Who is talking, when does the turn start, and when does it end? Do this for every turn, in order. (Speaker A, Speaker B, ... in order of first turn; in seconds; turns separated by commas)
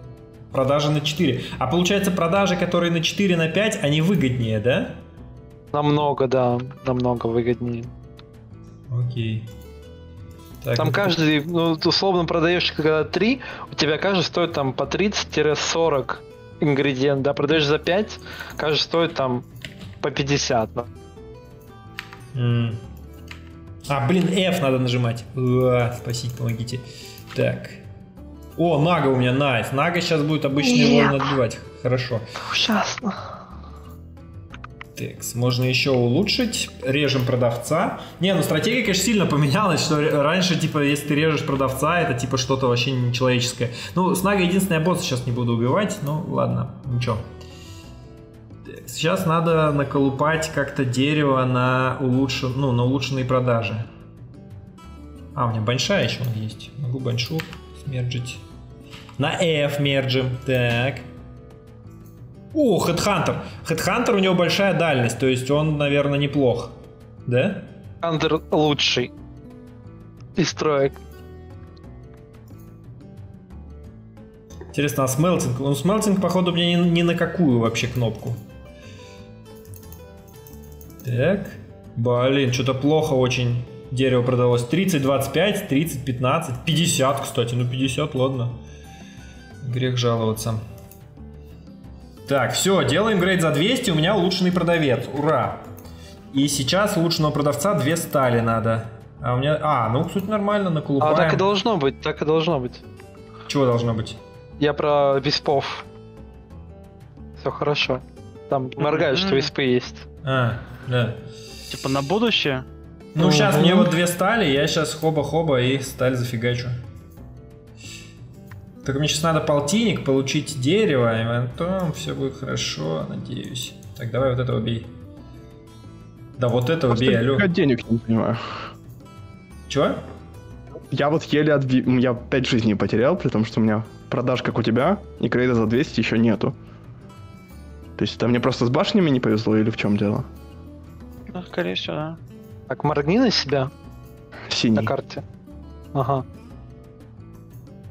Speaker A: 0.5-5.0, Speaker B: 5.7-7.9, Speaker A: 8.9-9.5, Speaker A: 10.6-11.2, Speaker B: 10.8-19.5, Speaker B: 20.0-20.9, Speaker A: 22.3-22.8, Speaker A: 23.9-27.8, Speaker A: 28.6-32.3, Speaker B: 30.6-31.2, Speaker B: 32.4-33.4, Speaker A: 35.0-47.2, Speaker A: 48.6-53.9, Speaker A: 55.4-58.4, Speaker A: 59.2-61.1, Speaker A: 62.5-67.7, Speaker B: 68.0-69.1, Speaker B: 70.4-71.0, Speaker A: 74.7-78.4, Speaker A: 81.0-88.6, Speaker A: 89.6-90.6, Speaker A: 92.3-95.7, Speaker A: 96.3-101.5, Speaker B: 101.0-102.8, Speaker A: 103.5-104.2, Speaker B: 104.6-105.9, Speaker B: 107.4-110.0, Speaker C: 108.8-109.5, Speaker A: 110.2-111.2, Speaker C: 111.7-112.7, Speaker A: 113.2-116.8, Speaker B: 113.2-113.9, Speaker A: 118.8-124.9, Speaker A: 126.4-127.5, Speaker D: 126.9-128.6, Speaker A: 129.7-130.0, Speaker D: 130.9-136.6, Speaker D: 138.0-140.3, Speaker C: 141.3-142.2, Speaker B: 142.7-143.7, Speaker D: 144.5-144.9, Speaker B: 144.8-145.2, Speaker B: 145.9-146.2